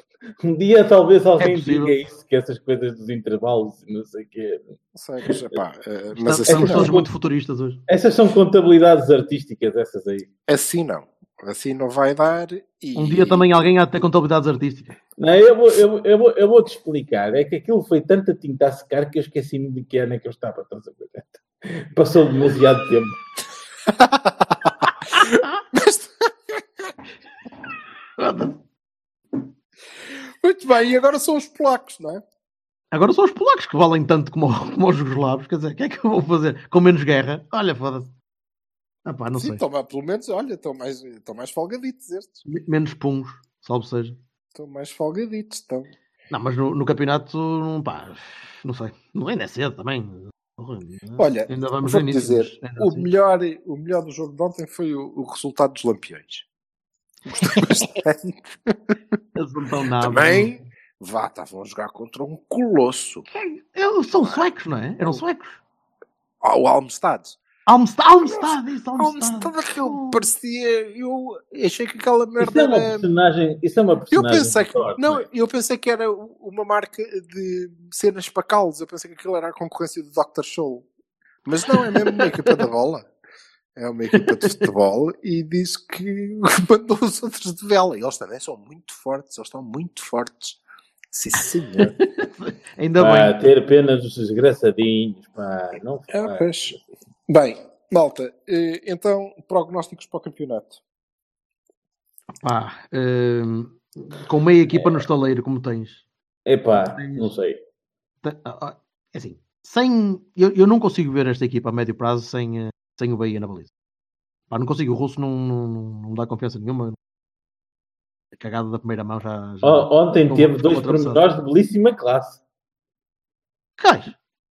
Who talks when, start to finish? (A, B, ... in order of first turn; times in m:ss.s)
0:00.4-0:04.7 A
0:01.4-0:02.0 B
0:04.9-0:06.9 C
0:06.2-0:07.8 B
0:06.4-0:07.1 A
0:07.9-0:10.3 A
0:10.5-0:13.6 C
0:13.0-0:15.0 B
0:15.2-0:23.2 A
0:23.9-0:26.6 C
0:28.2-0:28.6 B
0:30.4-0:32.2 C
0:32.9-0:38.1 B
0:39.0-0:39.6 B
0:39.3-0:42.4 C
0:42.4-0:44.2 B
0:44.5-0:45.9 C
0:46.3-0:53.1 B
0:51.2-0:56.4 C
0:57.2-0:58.9 C
0:59.4-1:00.5 B
1:00.0-1:03.2 C
1:03.3-1:05.6 B
1:04.2-1:04.4 C
1:06.4-1:07.4 C
1:07.7-1:10.2 B
1:08.2-1:13.1 C
1:12.4-1:15.3 A
1:14.1-1:20.9 C
1:21.4-1:23.1 C
1:21.7-1:22.5 B
1:23.8-1:30.6 C
1:24.1-1:24.7 B
1:31.1-1:31.9 C
1:31.8-1:33.3 B
1:33.0-1:36.8 A
1:36.1-1:36.8 C
1:37.3-1:40.8 C
1:42.4-1:46.0 B
1:44.7-1:45.0 A
1:46.4-1:47.6 A
1:46.9-1:47.2 B
1:48.2-1:53.7 B
1:54.5-1:57.0 B
1:58.3-2:01.2 B
1:59.6-2:02.4 A
2:03.8-2:04.2 B